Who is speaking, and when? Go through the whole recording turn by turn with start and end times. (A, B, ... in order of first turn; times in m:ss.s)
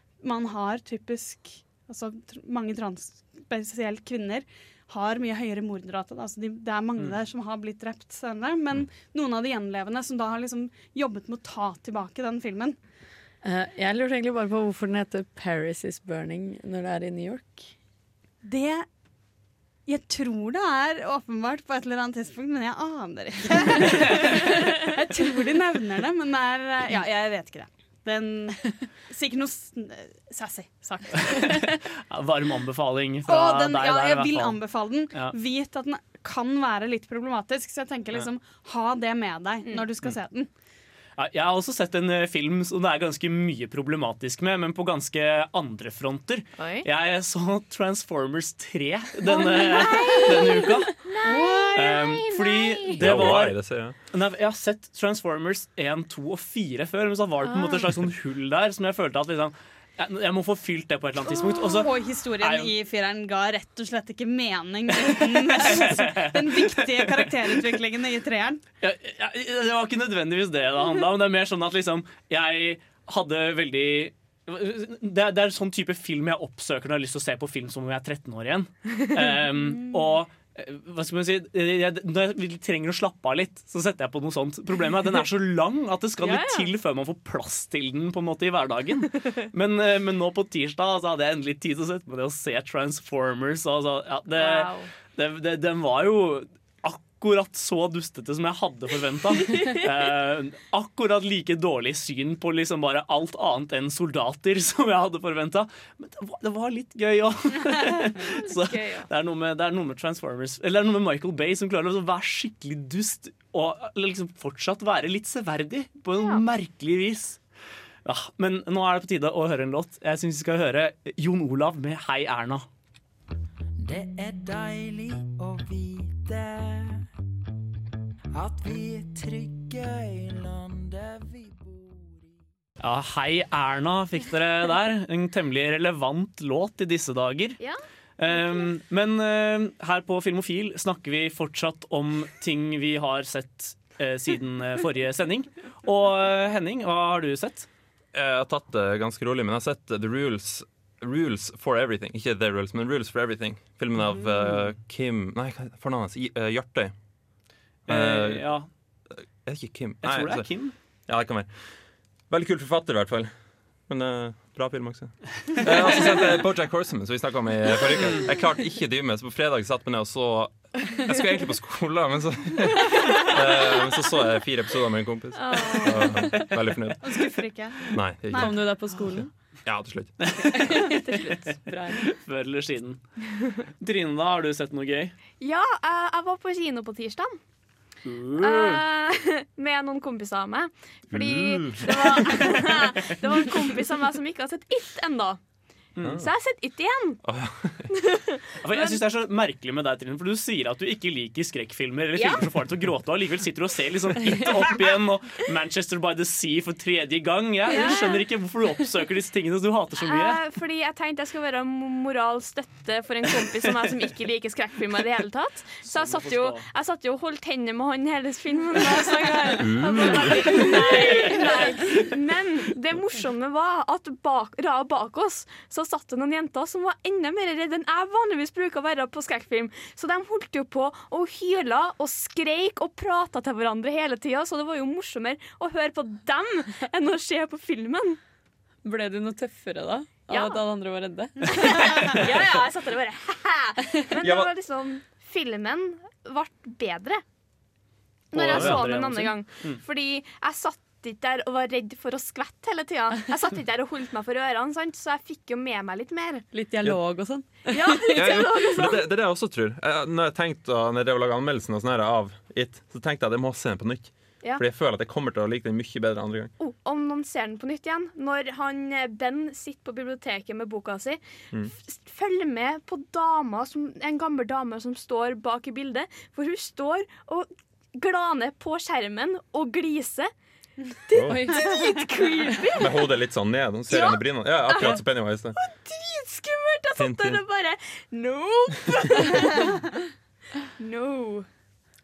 0:00.2-0:12.8 A
0:13.4-0:17.7 B
0:18.4-0:18.8 A
0:19.9-0:31.7 A
0:31.2-0:34.6 C
0:33.2-0:40.5 A
0:41.2-0:51.0 C
0:46.6-0:46.8 D
0:49.3-0:53.0 D
0:51.2-0:51.8 A
0:51.7-1:02.7 C
0:53.0-0:53.9 E
0:57.4-0:57.9 D
1:01.2-1:08.6 A
1:05.0-1:07.7 C
1:08.8-1:57.4 C
1:26.2-1:26.7 D
1:34.3-1:34.9 D
1:39.5-1:39.8 D
1:47.8-1:49.1 D
1:56.2-1:56.4 D
1:58.0-2:02.6 C
2:03.8-2:07.0 F
2:08.3-2:12.4 F
2:12.8-2:17.6 C
2:17.6-2:18.6 D
2:18.2-2:27.7 C
2:28.1-2:36.9 E
2:34.2-2:34.7 C
2:37.9-2:38.5 E
2:37.9-2:38.7 C
2:39.1-2:40.5 E
2:40.0-2:40.7 C
2:41.1-2:43.3 E
2:43.9-2:57.0 E
2:48.0-2:48.3 C
2:55.4-2:56.3 D
2:57.0-2:58.6 A
2:57.9-3:00.2 E
2:58.3-2:59.3 B
3:00.2-3:01.4 C
3:00.5-3:02.1 B
3:01.9-3:03.0 C
3:03.8-3:05.2 C
3:05.4-3:07.4 D
3:08.0-3:08.8 C
3:08.4-3:15.4 D
3:11.1-3:11.9 E
3:12.2-3:12.7 C
3:16.0-3:16.2 C
3:16.1-3:17.2 D
3:17.2-3:17.9 E
3:17.9-3:19.0 D
3:18.6-3:30.4 C
3:22.1-3:22.4 D
3:27.6-3:28.2 D
3:30.0-3:58.2 D
3:35.8-3:36.6 C
3:39.7-3:42.0 C
3:58.8-4:01.9 B
4:00.3-4:00.6 D
4:01.6-4:07.2 D
4:02.0-4:02.2 C
4:04.2-4:04.5 E
4:08.3-4:09.8 C
4:08.3-4:16.4 D
4:08.5-4:08.8 E
4:16.5-4:18.4 B
4:17.7-4:19.0 D
4:18.1-4:26.5 E
4:26.6-4:40.3 D
4:41.1-4:43.1 D
4:41.3-4:41.7 B
4:42.8-4:45.6 E
4:43.9-4:45.0 D
4:45.6-4:50.0 D
4:47.0-4:47.4 E
4:50.8-4:51.5 D